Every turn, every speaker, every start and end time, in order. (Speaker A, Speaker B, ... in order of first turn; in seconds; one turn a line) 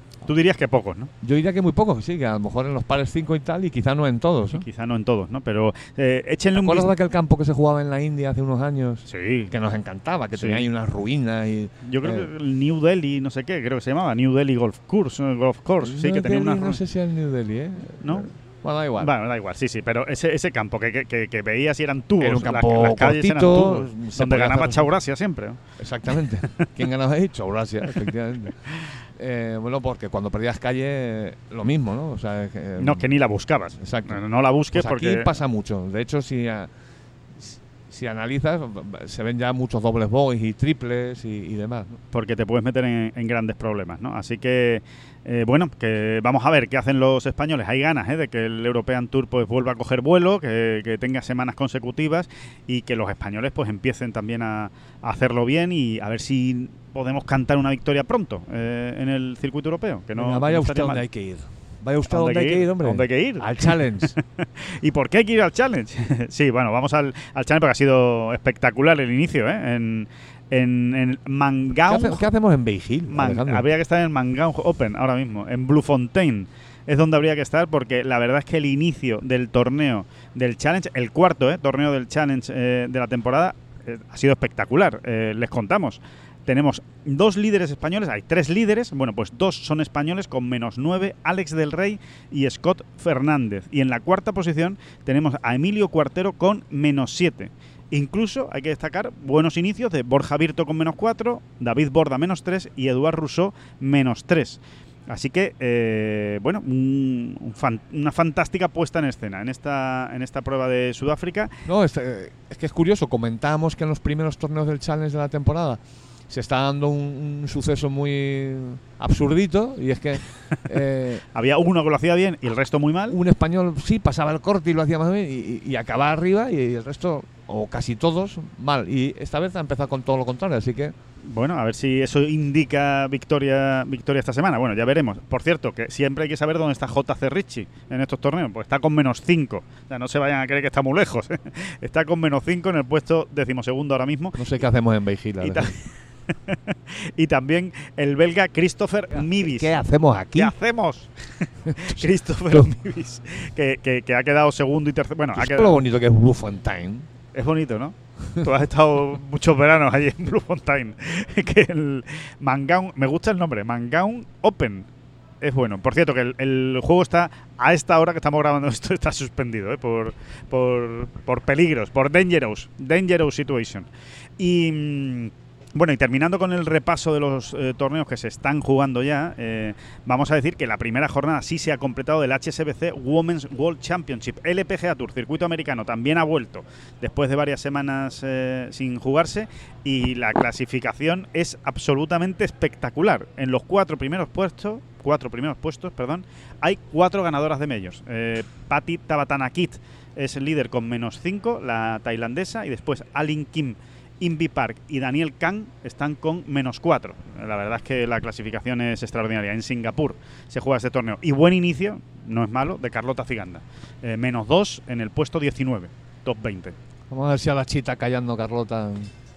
Speaker A: 0.2-1.1
Speaker B: 1.2-4.6
Speaker A: 4.5-6.9
Speaker B: 6.5-12.3
Speaker A: 9.1-9.5
Speaker A: 10.3-10.6
Speaker A: 11.8-16.8
Speaker B: 15.8-19.1
Speaker A: 18.0-18.3
Speaker A: 19.0-26.7
Speaker B: 22.2-24.9
Speaker B: 25.8-33.1
Speaker A: 28.7-28.9
Speaker A: 32.8-35.3
Speaker B: 33.7-34.2
Speaker B: 34.7-36.7
Speaker B: 37.4-42.0
Speaker A: 42.1-61.0
Speaker B: 60.1-64.1
Speaker A: 62.1-72.2
Speaker B: 71.9-73.6
Speaker A: 73.1-111.5
Speaker B: 111.7-121.2
Speaker A: 121.3-123.2
Speaker B: 123.1-130.9
Speaker A: 131.2-144.4
Speaker B: 144.4-145.7
Speaker A: 145.4-149.8
Speaker B: 149.1-150.5
Speaker A: 150.3-155.8
Speaker B: 151.7-152.7
Speaker B: 155.3-157.1
Speaker A: 157.3-164.9
Speaker A: 165.4-173.9
Speaker A: 174.4-216.7
Speaker B: 217.1-219.1